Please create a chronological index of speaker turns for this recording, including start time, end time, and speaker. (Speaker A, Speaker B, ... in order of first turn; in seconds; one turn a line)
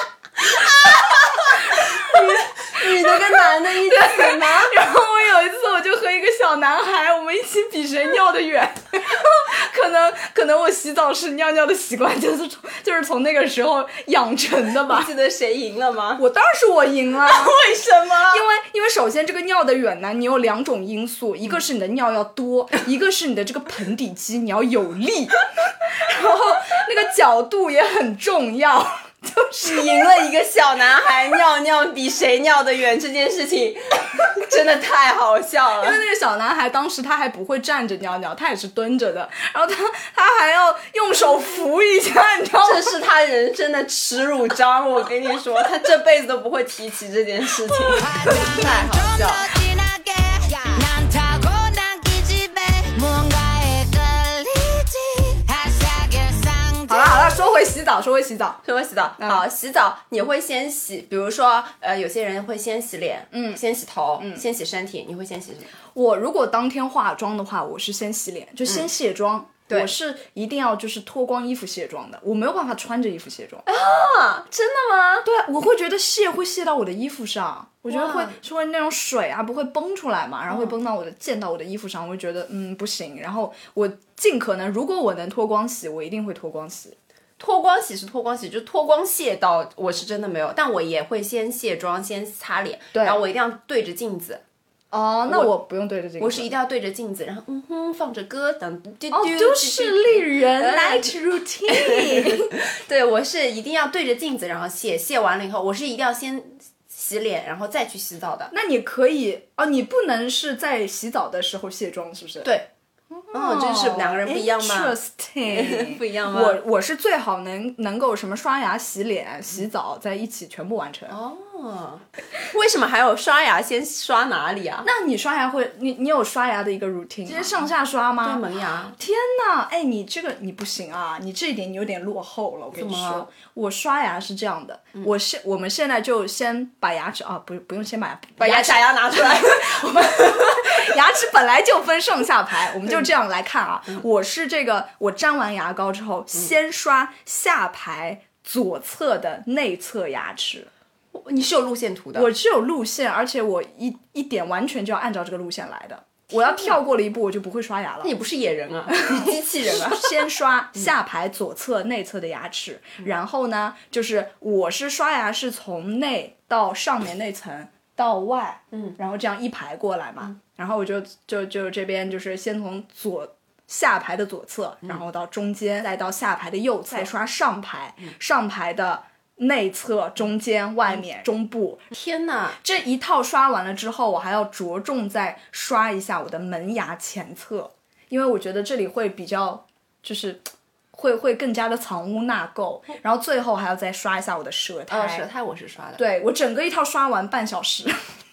Speaker A: 0.6-4.8
Speaker B: 1.4-15.1
Speaker A: 14.9-16.2
Speaker B: 16.2-17.6
Speaker A: 17.2-18.4
Speaker B: 18.3-30.0
Speaker A: 29.6-36.0
Speaker B: 35.8-42.9
Speaker A: 42.6-49.5
Speaker C: 48.0-57.1
Speaker B: 56.9-58.6
Speaker A: 58.6-65.7
Speaker B: 59.2-59.4
Speaker B: 63.3-63.6
Speaker B: 64.2-64.4
Speaker B: 65.9-73.7
Speaker A: 73.7-75.3
Speaker B: 75.2-87.0
Speaker A: 77.9-78.4
Speaker A: 80.5-80.7
Speaker A: 87.4-94.4
Speaker B: 92.9-93.2
Speaker B: 94.9-96.5
Speaker A: 96.2-101.2
Speaker B: 99.1-102.5
Speaker A: 101.7-108.5
Speaker B: 108.5-112.5
Speaker A: 112.4-112.7
Speaker B: 113.1-121.2
Speaker A: 113.3-116.6
Speaker A: 121.1-124.9
Speaker B: 124.8-128.4
Speaker A: 127.3-127.6
Speaker A: 128.2-129.0
Speaker B: 129.0-150.7
Speaker A: 132.7-133.3
Speaker A: 138.4-139.9
Speaker A: 151.1-152.3
Speaker B: 152.1-158.1
Speaker A: 158.0-160.9
Speaker B: 158.9-181.9
Speaker A: 181.9-182.6
Speaker B: 182.6-195.3
Speaker A: 194.9-196.0
Speaker B: 196.0-198.1